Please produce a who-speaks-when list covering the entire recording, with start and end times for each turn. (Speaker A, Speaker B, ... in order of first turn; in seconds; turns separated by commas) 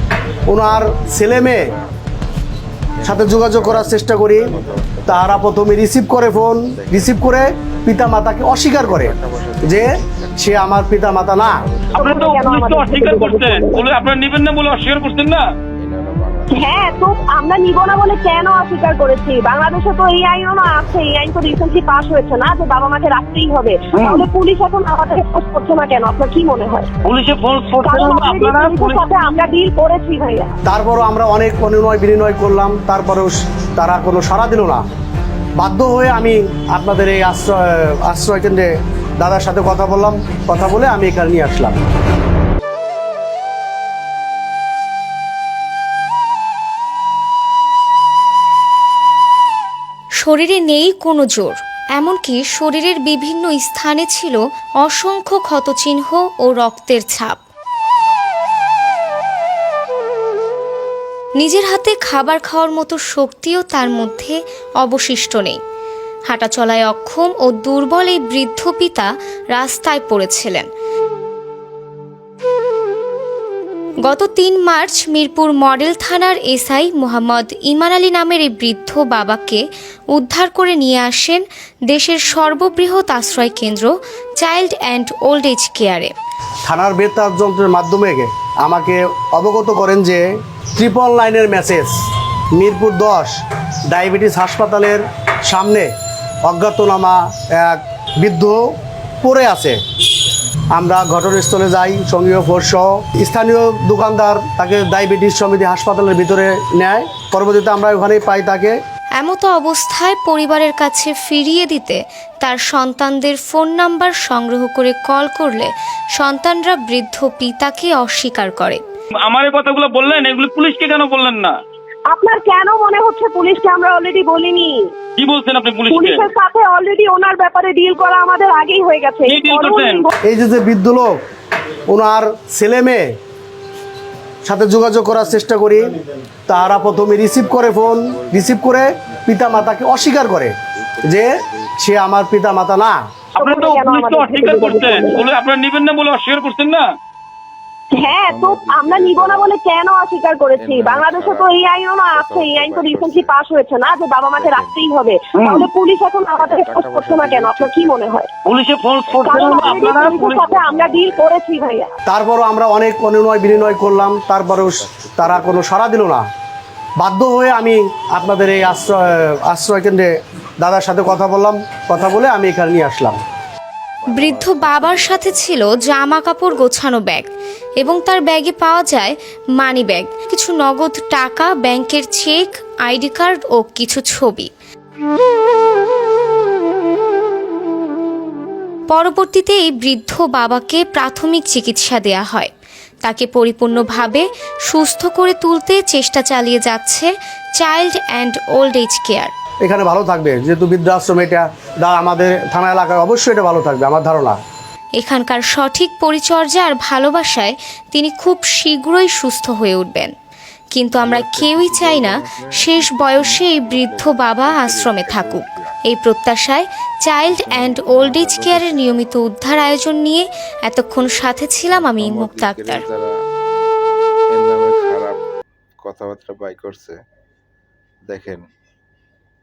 Speaker A: 0.5-1.7, Speaker B: 0.6-1.9, Speaker B: 3.0-7.4, Speaker A: 3.0-11.6, Speaker B: 8.7-12.4, Speaker C: 11.9-13.8, Speaker D: 12.0-15.4, Speaker B: 15.8-18.7, Speaker C: 16.5-26.9, Speaker D: 24.0-24.2, Speaker B: 26.4-27.7, Speaker D: 27.0-29.0, Speaker C: 27.8-30.6, Speaker A: 30.6-34.8, Speaker A: 35.6-41.8, Speaker E: 50.2-57.4, Speaker E: 61.4-65.6, Speaker E: 66.3-70.7, Speaker E: 74.0-86.1, Speaker A: 86.7-90.2, Speaker A: 90.8-92.0, Speaker A: 92.5-95.9, Speaker A: 96.4-98.7, Speaker A: 99.2-99.8, Speaker A: 100.7-108.8, Speaker E: 109.2-118.8, Speaker D: 119.2-121.5, Speaker C: 122.1-124.8, Speaker D: 125.2-126.3, Speaker C: 125.9-130.2, Speaker D: 129.3-130.1, Speaker A: 130.2-131.2, Speaker A: 131.9-133.1, Speaker A: 134.4-135.9, Speaker A: 136.5-141.3, Speaker B: 137.3-141.8, Speaker A: 141.8-143.0, Speaker C: 143.4-145.2, Speaker D: 143.4-146.9, Speaker C: 147.9-158.3, Speaker B: 148.0-149.6, Speaker B: 150.6-153.4, Speaker B: 154.2-155.0, Speaker D: 155.4-155.7, Speaker B: 156.3-158.2, Speaker D: 158.4-160.4, Speaker B: 159.0-161.4, Speaker C: 159.2-161.9, Speaker A: 162.1-166.2, Speaker B: 163.4-165.7, Speaker A: 167.0-170.1, Speaker B: 168.3-169.4, Speaker A: 170.6-173.2, Speaker B: 174.0-175.9, Speaker E: 174.2-177.3, Speaker E: 177.8-184.5, Speaker E: 188.9-192.5, Speaker E: 193.0-199.3, Speaker A: 199.6-204.4, Speaker E: 205.0-210.1, Speaker E: 210.8-222.8, Speaker B: 211.0-215.8, Speaker B: 217.3-219.1, Speaker B: 221.7-223.1, Speaker B: 224.3-225.2, Speaker B: 225.8-227.0, Speaker B: 228.1-228.4